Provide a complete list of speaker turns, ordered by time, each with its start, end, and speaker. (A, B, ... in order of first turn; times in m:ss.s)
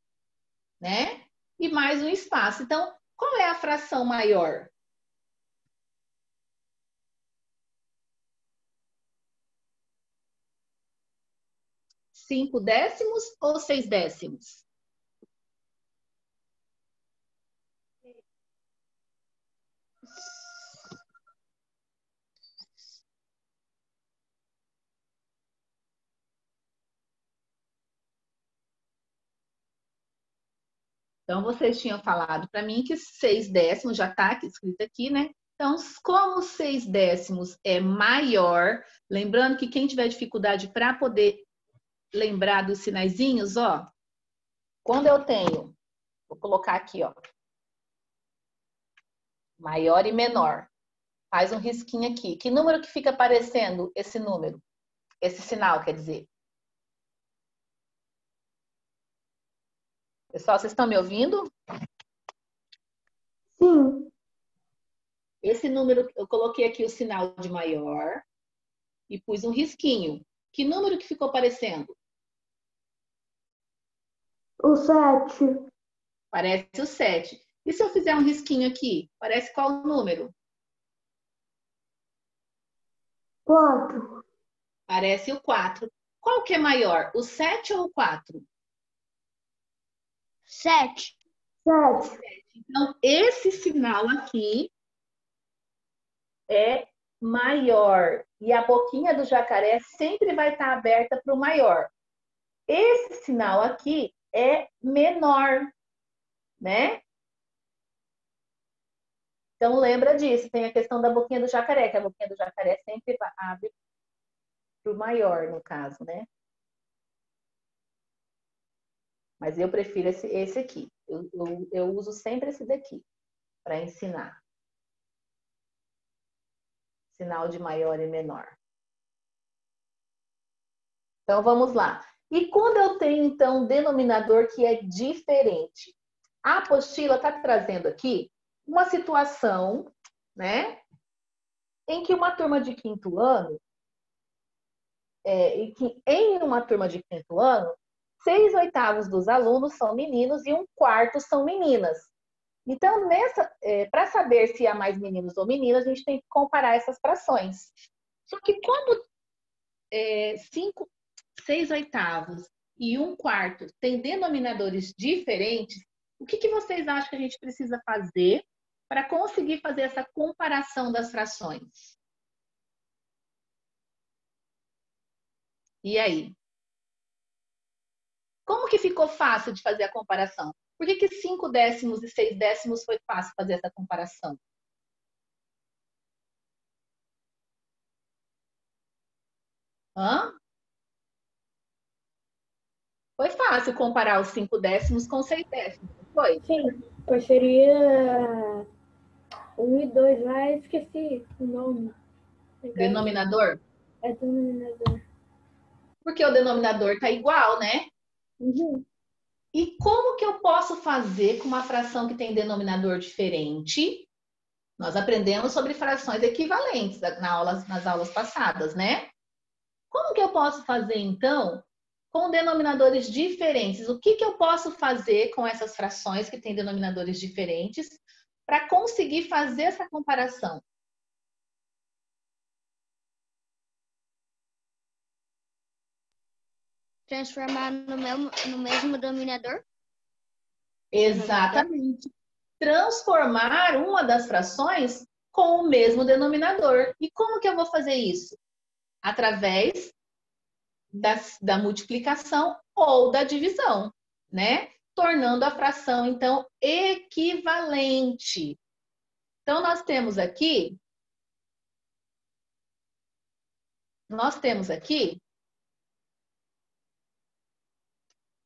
0:00.8-0:04.7 A
0:12.1-0:14.6 A
0:31.3-0:41.4 A
0:42.1-0:43.9 A
0:44.8-0:45.8 A
0:46.3-0:47.2 A
0:49.6-0:50.7 A
0:51.3-0:54.6 A
0:55.2-0:56.3 A
1:00.3-1:01.5 A
1:03.6-1:04.1 B
1:05.4-1:08.2 A
1:09.1-1:12.0 A
1:14.6-1:15.6 B
1:16.3-1:20.3 A
1:23.5-1:24.2 B
1:24.9-1:28.4 A
1:30.5-1:31.2 C
1:31.6-1:32.1 B
1:32.0-1:34.7 A
1:36.5-1:41.9 A
1:42.7-1:45.7 A
1:46.6-1:47.0 A
1:49.6-1:53.7 A
1:54.8-1:56.3 A
1:59.4-2:03.0 A
2:03.6-2:04.4 A
2:07.1-2:08.6 A
2:11.3-2:20.8 A
2:21.9-2:23.6 A
2:25.2-2:32.1 A
2:32.6-2:37.7 A
2:38.3-2:39.0 A
2:39.9-2:51.9 A
2:55.8-2:56.3 A
2:58.4-3:04.4 A
3:10.0-3:10.4 A
3:13.2-3:16.4 A
3:16.4-3:18.6 D
3:19.6-3:21.9 D
3:22.6-3:23.1 D
3:22.7-3:23.6 A
3:24.0-3:25.0 D
3:26.0-3:27.9 A
3:28.4-3:28.8 D
3:29.5-3:34.1 A
3:34.8-3:39.1 A
3:39.9-3:50.6 A
3:57.1-3:59.6 C
4:00.9-4:02.0 A
4:01.1-4:01.7 C
4:02.6-4:08.4 A
4:09.0-4:09.9 A
4:10.9-4:18.6 A
4:19.4-4:20.8 A
4:24.1-4:25.2 A